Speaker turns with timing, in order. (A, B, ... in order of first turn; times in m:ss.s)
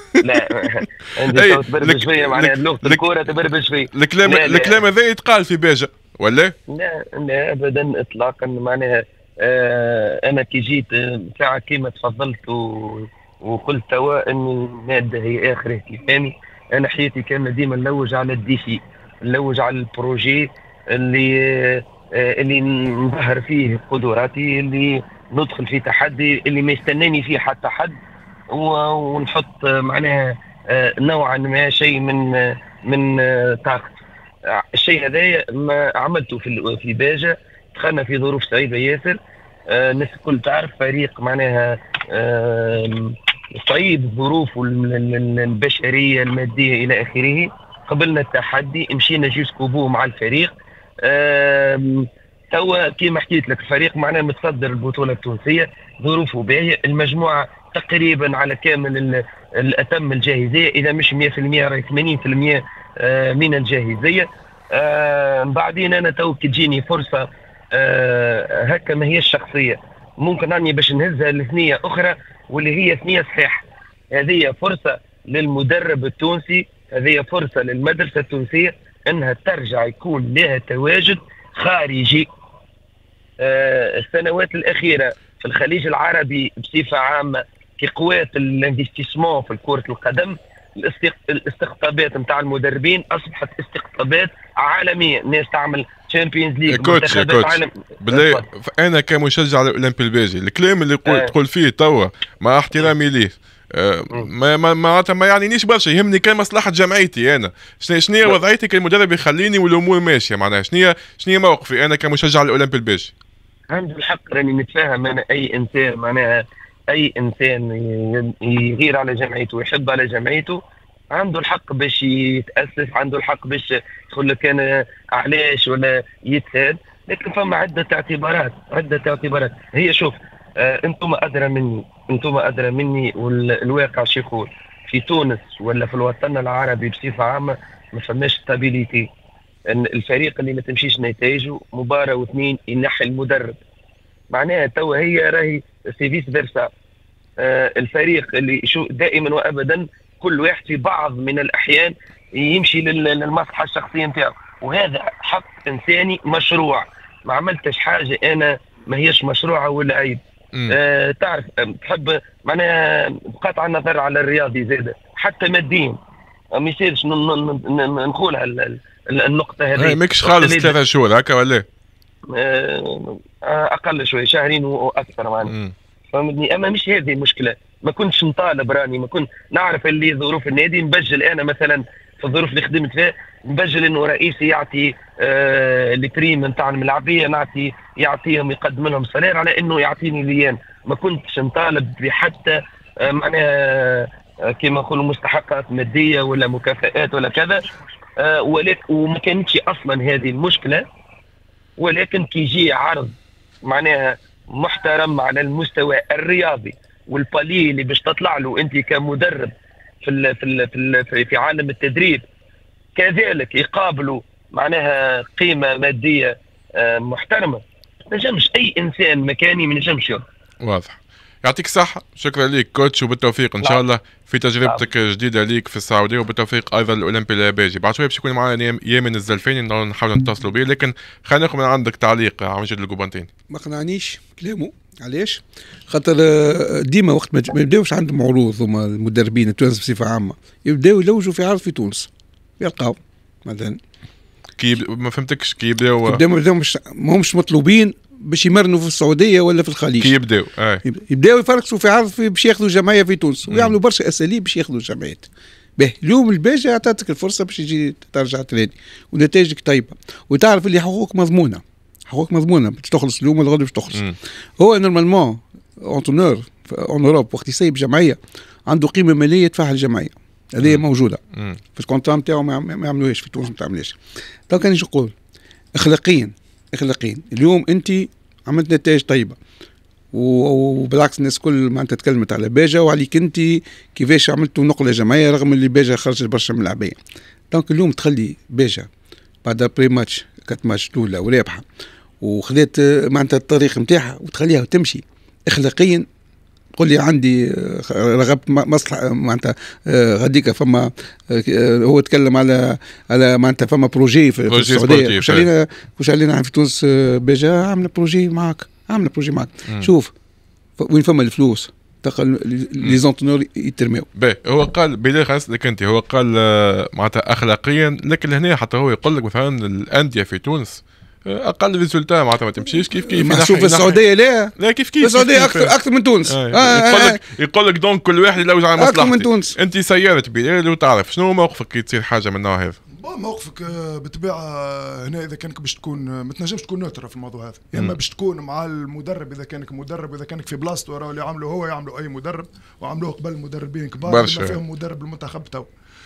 0:00.2-0:04.7 A
0:01.3-0:06.5 B
0:06.7-0:28.0 A
0:28.5-0:32.2 A
0:32.9-0:33.9 A
0:34.7-0:39.2 A
0:39.7-0:50.5 A
0:51.0-1:07.2 A
1:07.8-1:22.3 A
1:23.4-1:38.4 A
1:36.7-1:53.1 B
1:53.7-1:56.3 A
1:56.9-2:00.6 A
2:01.1-2:19.1 A
2:19.7-2:23.6 A
2:24.3-2:26.7 A
2:27.4-2:46.0 A
2:46.6-2:50.7 A
2:49.8-2:51.6 B
2:52.3-2:55.5 A
2:55.5-2:55.7 B
2:56.1-3:17.6 A
3:18.2-3:20.8 A
3:21.8-3:23.1 A
3:23.6-3:29.5 A
3:30.0-3:32.2 A
3:33.0-3:40.2 A
3:40.6-3:53.3 B
3:53.5-4:02.1 C
4:02.6-4:03.8 C
4:04.6-4:06.2 B
4:06.0-4:10.1 C
4:10.0-4:10.8 B
4:10.8-4:24.0 C
4:13.5-4:13.8 B
4:24.6-4:31.2 C
4:30.6-4:31.6 B
4:31.7-4:34.0 C
4:34.5-4:35.1 C
4:35.7-4:39.4 C
4:40.1-4:47.0 C
4:47.5-4:48.9 C
4:49.4-4:51.6 C
4:52.2-4:56.0 C
4:56.8-5:10.1 C
5:04.5-5:05.5 B
5:10.8-5:14.0 C
5:14.2-5:24.0 B
5:23.0-5:27.2 C
5:24.6-5:32.8 B
5:28.8-5:29.5 C
5:33.0-5:45.7 D
5:44.0-5:44.6 B